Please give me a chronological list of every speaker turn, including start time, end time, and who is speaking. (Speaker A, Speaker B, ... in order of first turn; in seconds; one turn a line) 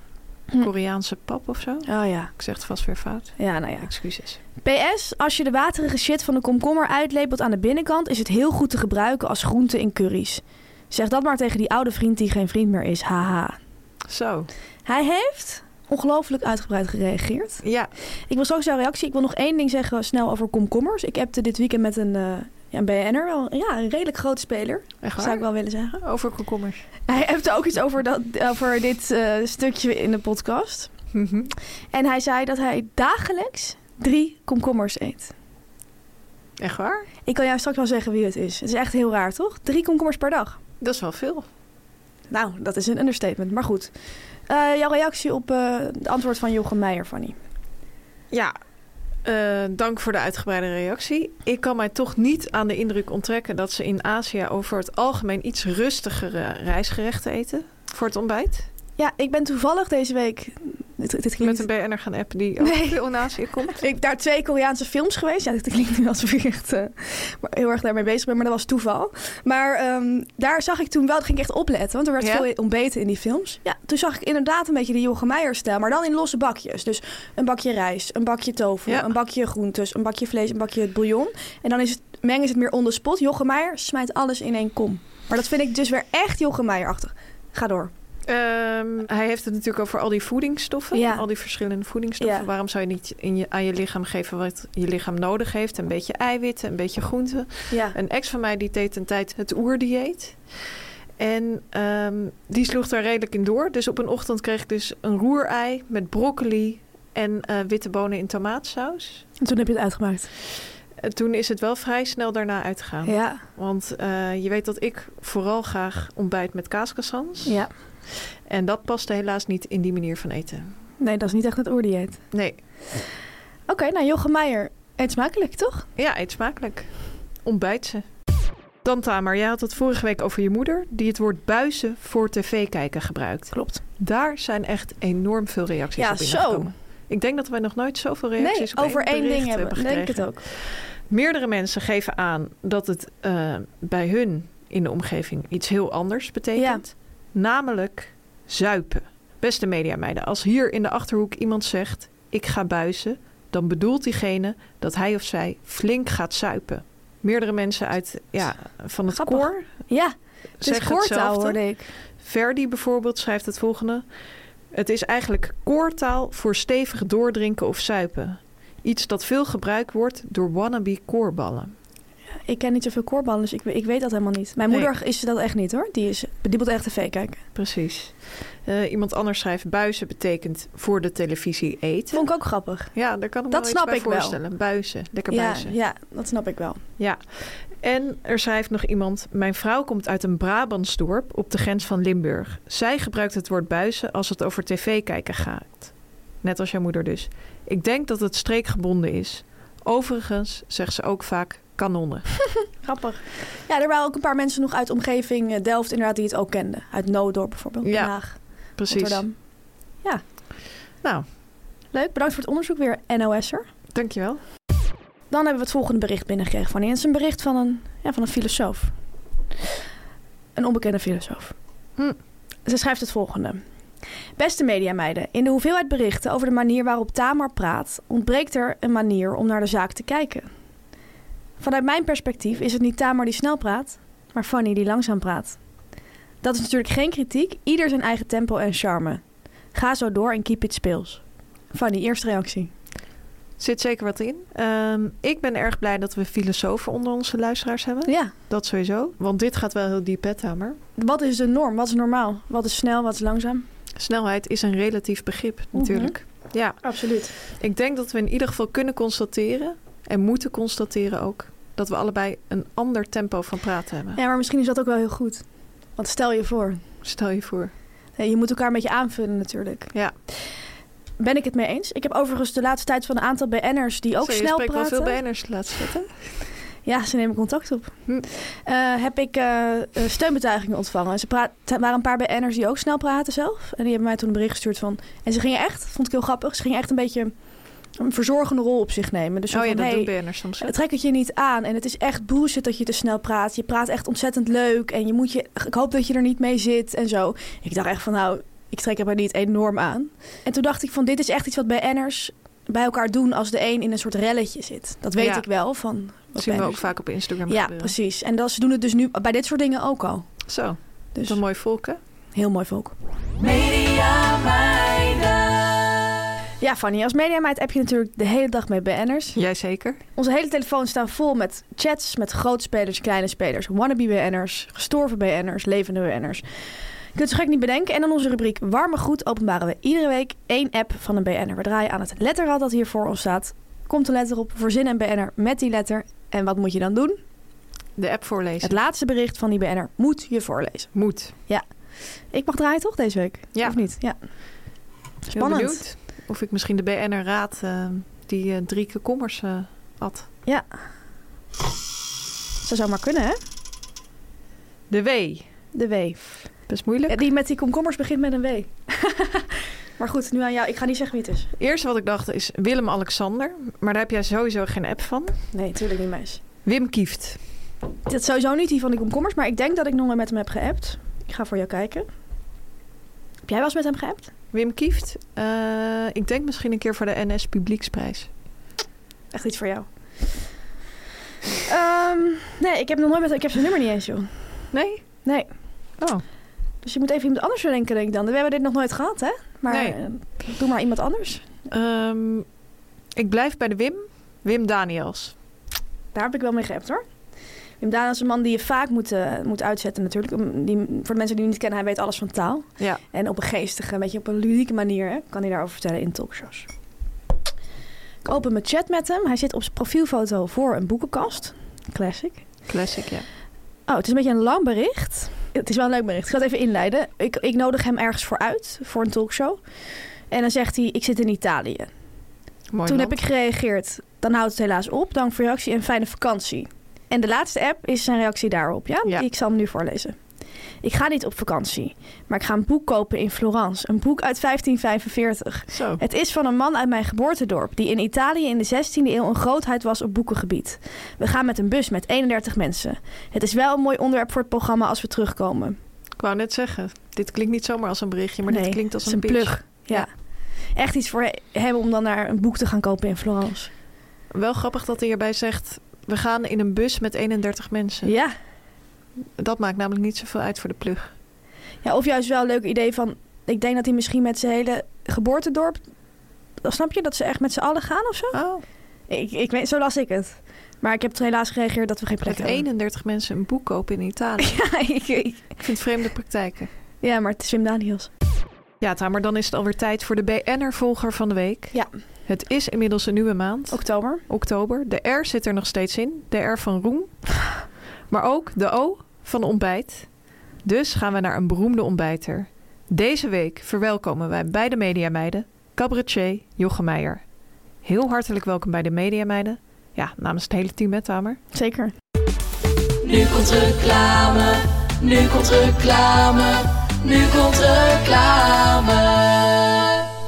Speaker A: 0.6-4.4
Speaker B: 1.9-2.3
Speaker B: 3.4-3.9
Speaker B: 4.6-13.6
Speaker A: 14.1-14.5
Speaker B: 14.9-17.6
Speaker A: 17.6-17.9
Speaker B: 18.3-26.0
Speaker A: 25.0-25.4
Speaker A: 26.0-26.8
Speaker B: 27.1-30.9
Speaker A: 31.1-31.5
Speaker B: 31.9-35.3
Speaker A: 36.6-37.1
Speaker B: 37.3-40.6
Speaker A: 40.8-41.5
Speaker B: 42.3-43.9
Speaker B: 44.5-47.4
Speaker A: 49.2-58.7
Speaker B: 59.0-61.6
Speaker A: 61.4-63.8
Speaker B: 62.6-63.0
Speaker B: 63.7-87.9
Speaker A: 72.2-72.5
Speaker A: 78.9-79.1
Speaker A: 88.3-100.4
Speaker B: 90.9-91.2
Speaker B: 92.2-92.5
Speaker B: 97.7-98.0
Speaker A: 101.2-109.2
Speaker B: 109.4-110.3
Speaker A: 111.0-117.5
Speaker B: 113.0-113.4
Speaker B: 117.5-117.7
Speaker A: 118.5-120.7
Speaker B: 121.0-122.2
Speaker A: 122.3-122.6
Speaker B: 123.7-125.9
Speaker A: 126.0-126.9
Speaker A: 127.4-128.1
Speaker A: 128.8-159.7
Speaker B: 133.5-133.8
Speaker B: 136.0-136.7
Speaker B: 138.4-140.4
Speaker B: 146.6-146.8
Speaker B: 159.1-161.9
Speaker A: 160.6-161.6
Speaker A: 162.2-164.1
Speaker A: 164.7-171.7
Speaker B: 172.5-177.4
Speaker A: 177.6-182.3
Speaker B: 182.1-182.9
Speaker A: 182.9-185.8
Speaker B: 183.5-184.4
Speaker B: 185.3-186.8
Speaker A: 187.0-195.9
Speaker A: 196.4-202.3
Speaker B: 202.8-209.4
Speaker A: 207.8-208.2
Speaker A: 208.8-209.3
Speaker B: 211.9-213.7
Speaker A: 213.9-214.4
Speaker B: 215.3-218.9
Speaker B: 220.6-221.6
Speaker B: 222.7-223.6
Speaker B: 224.4-230.5
Speaker B: 231.6-235.6
Speaker B: 236.4-239.2
Speaker B: 239.7-241.2
Speaker B: 241.7-242.7
Speaker A: 243.6-250.8
Speaker B: 248.1-248.3
Speaker B: 251.0-253.7
Speaker A: 254.0-256.8
Speaker B: 255.7-256.2
Speaker B: 256.8-257.3
Speaker A: 257.5-264.2
Speaker B: 264.1-265.4
Speaker B: 266.0-266.8
Speaker A: 267.0-267.7
Speaker B: 268.2-269.9
Speaker B: 271.2-275.2
Speaker A: 274.2-276.1
Speaker B: 276.9-287.3
Speaker B: 288.0-306.9
Speaker A: 289.5-290.7
Speaker A: 305.2-305.5
Speaker A: 306.4-307.9
Speaker B: 307.5-310.3
Speaker A: 310.5-312.0
Speaker B: 312.4-312.9
Speaker C: 313.4-315.7
Speaker B: 316.6-319.4
Speaker A: 319.4-320.0
Speaker B: 320.2-326.4
Speaker B: 327.1-337.2
Speaker A: 338.0-338.8
Speaker B: 338.6-340.9
Speaker A: 340.9-341.3
Speaker B: 342.3-344.2
Speaker A: 343.5-343.8
Speaker B: 345.3-345.8
Speaker A: 345.3-350.3
Speaker B: 352.6-353.4
Speaker A: 354.9-355.5
Speaker B: 355.7-356.3
Speaker A: 356.7-357.2
Speaker B: 357.1-361.5
Speaker A: 361.6-365.4
Speaker B: 365.5-366.4
Speaker A: 366.6-367.4
Speaker B: 368.1-372.1
Speaker B: 373.5-374.3
Speaker A: 374.5-378.3
Speaker B: 379.3-379.9
Speaker B: 381.6-384.3
Speaker A: 384.7-385.0
Speaker B: 386.8-391.4
Speaker A: 389.7-390.0
Speaker A: 391.7-392.5
Speaker A: 393.2-395.3
Speaker B: 396.1-397.0
Speaker B: 397.8-406.7
Speaker B: 408.2-412.4
Speaker A: 412.7-413.3
Speaker B: 413.9-419.6
Speaker B: 420.3-421.9
Speaker A: 422.7-423.2
Speaker B: 422.9-430.2
Speaker B: 430.8-445.8
Speaker A: 435.7-436.0
Speaker A: 446.2-450.1
Speaker B: 448.5-450.1
Speaker B: 450.8-453.7
Speaker A: 454.3-458.1
Speaker B: 458.1-458.3
Speaker A: 459.4-461.1
Speaker B: 461.8-465.8
Speaker B: 466.6-468.4
Speaker A: 468.3-468.6
Speaker B: 469.1-472.6
Speaker A: 472.2-474.6
Speaker B: 474.4-475.5
Speaker A: 475.6-476.7
Speaker B: 477.0-478.1
Speaker A: 478.8-487.1
Speaker B: 483.7-484.2
Speaker A: 488.1-490.1
Speaker A: 490.6-497.2
Speaker A: 497.8-501.4
Speaker B: 501.5-501.9
Speaker C: 503.0-509.9